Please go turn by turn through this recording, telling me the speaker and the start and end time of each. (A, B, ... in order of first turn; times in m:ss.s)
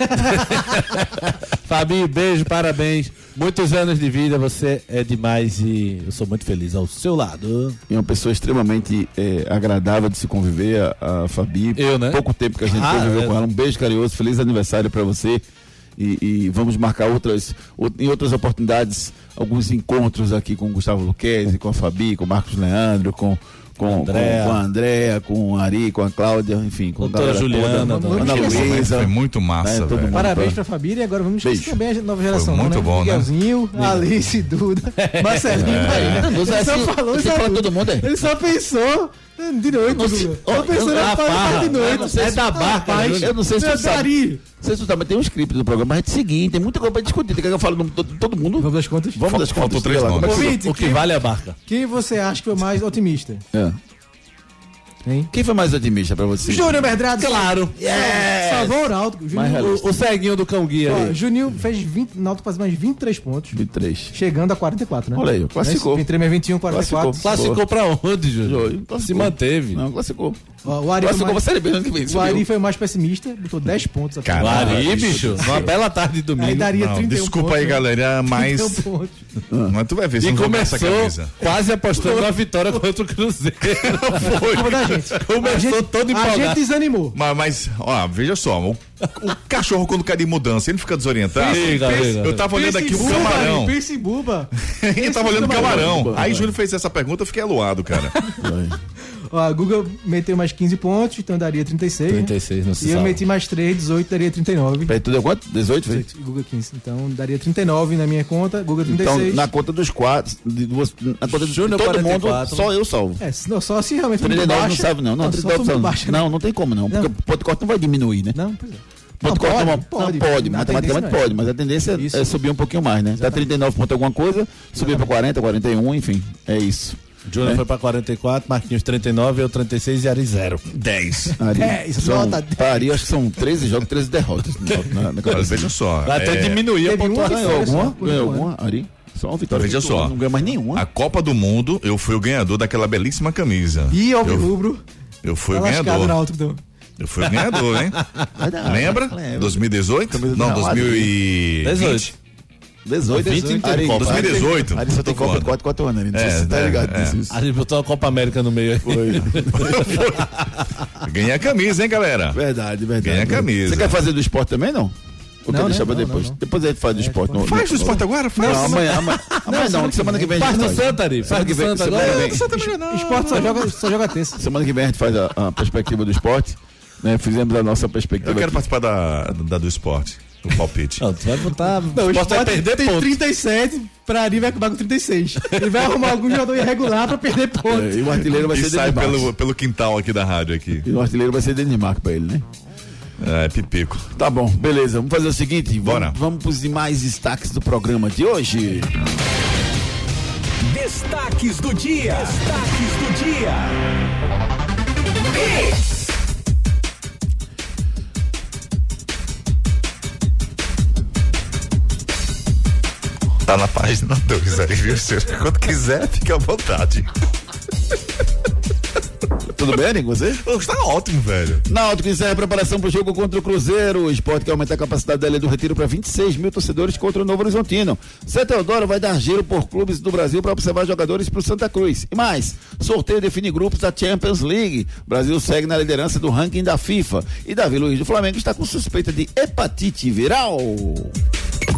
0:00.2-0:07.8 A
0:07.9-0:15.4 B
0:11.8-0:13.4 A
0:16.0-0:30.6 B
0:23.8-0:24.6 A
0:27.0-0:28.7 A
0:27.6-0:28.9 C
0:28.2-0:30.3 D
0:30.1-0:44.4 C
0:31.4-0:31.8 B
0:32.3-0:33.3 D
0:33.8-0:34.1 A
0:35.0-0:35.8 A
0:35.6-0:36.3 D
0:35.6-0:38.1 B
0:39.8-0:50.6 B
0:40.6-0:43.3 A
0:48.6-0:49.3 C
0:49.3-0:50.5 D
0:50.2-0:51.1 C
0:50.4-0:51.6 A
0:51.7-0:53.4 C
0:53.5-0:53.8 B
0:55.0-0:55.3 C
0:55.3-0:57.0 B
0:56.4-0:59.8 C
0:57.2-0:58.7 A
0:58.0-0:58.7 B
0:59.3-0:59.9 B
0:59.4-1:01.2 A
1:00.8-1:03.6 C
1:03.5-1:04.2 B
1:04.1-1:07.2 C
1:05.1-1:06.1 B
1:06.7-1:07.6 B
1:07.2-1:09.8 A
1:08.4-1:12.5 B
1:10.6-1:11.4 C
1:12.1-1:15.7 C
1:14.2-1:15.3 D
1:14.4-1:16.7 A
1:14.4-1:15.7 B
1:16.4-1:19.2 C
1:16.7-1:18.9 D
1:19.5-1:19.8 B
1:19.7-1:21.4 D
1:20.2-1:24.5 A
1:22.0-1:22.3 C
1:23.8-1:25.2 D
1:24.3-1:27.2 C
1:25.1-1:26.6 A
1:27.2-1:33.8 D
1:31.4-1:33.5 A
1:31.4-1:36.2 C
1:34.7-1:38.2 D
1:35.3-1:36.5 B
1:38.4-1:38.8 B
1:39.3-1:45.0 C
1:42.1-1:43.2 A
1:44.9-1:46.1 B
1:45.9-1:49.4 C
1:48.8-1:53.2 B
1:51.3-1:52.7 A
1:53.2-1:56.2 C
1:54.2-1:58.4 B
1:58.4-2:01.4 C
1:59.2-2:07.6 B
2:02.0-2:02.3 C
2:03.2-2:03.4 C
2:04.8-2:05.1 C
2:07.3-2:11.4 A
2:11.4-2:15.8 B
2:11.5-2:13.0 C
2:15.3-2:16.7 D
2:16.0-2:18.0 A
2:16.8-2:18.5 C
2:17.2-2:20.9 B
2:19.5-2:20.2 D
2:20.7-2:24.5 D
2:23.9-2:24.8 C
2:25.2-2:26.2 D
2:25.5-2:26.6 C
2:27.0-2:28.0 D
2:28.4-2:31.1 B
2:28.6-2:32.1 D
2:31.6-2:32.1 A
2:32.8-2:37.4 B
2:33.1-2:34.5 A
2:33.1-2:34.0 C
2:33.9-2:35.6 D
2:36.1-2:37.2 D
2:37.3-2:40.3 A
2:38.8-2:40.0 B
2:39.6-2:40.2 D
2:41.0-2:42.4 D
2:42.3-2:52.5 B
2:43.0-2:44.0 D
2:45.5-2:46.4 C
2:47.0-2:51.0 C
2:47.4-2:49.0 D
2:49.1-2:49.4 A
2:50.3-2:52.4 A
2:51.9-2:53.9 D
2:52.5-2:54.4 C
2:54.4-2:58.6 B
2:58.2-3:01.0 D
3:01.0-3:03.2 A
3:01.9-3:08.0 C
3:07.6-3:09.3 B
3:08.4-3:10.9 D
3:10.8-3:12.4 B
3:13.2-3:14.1 D
3:14.2-3:18.9 B
3:15.8-3:16.2 D
3:20.8-3:23.4 E
3:33.5-3:37.1 D
3:39.5-3:40.4 B
3:40.4-3:41.6 D
3:41.7-4:01.2 B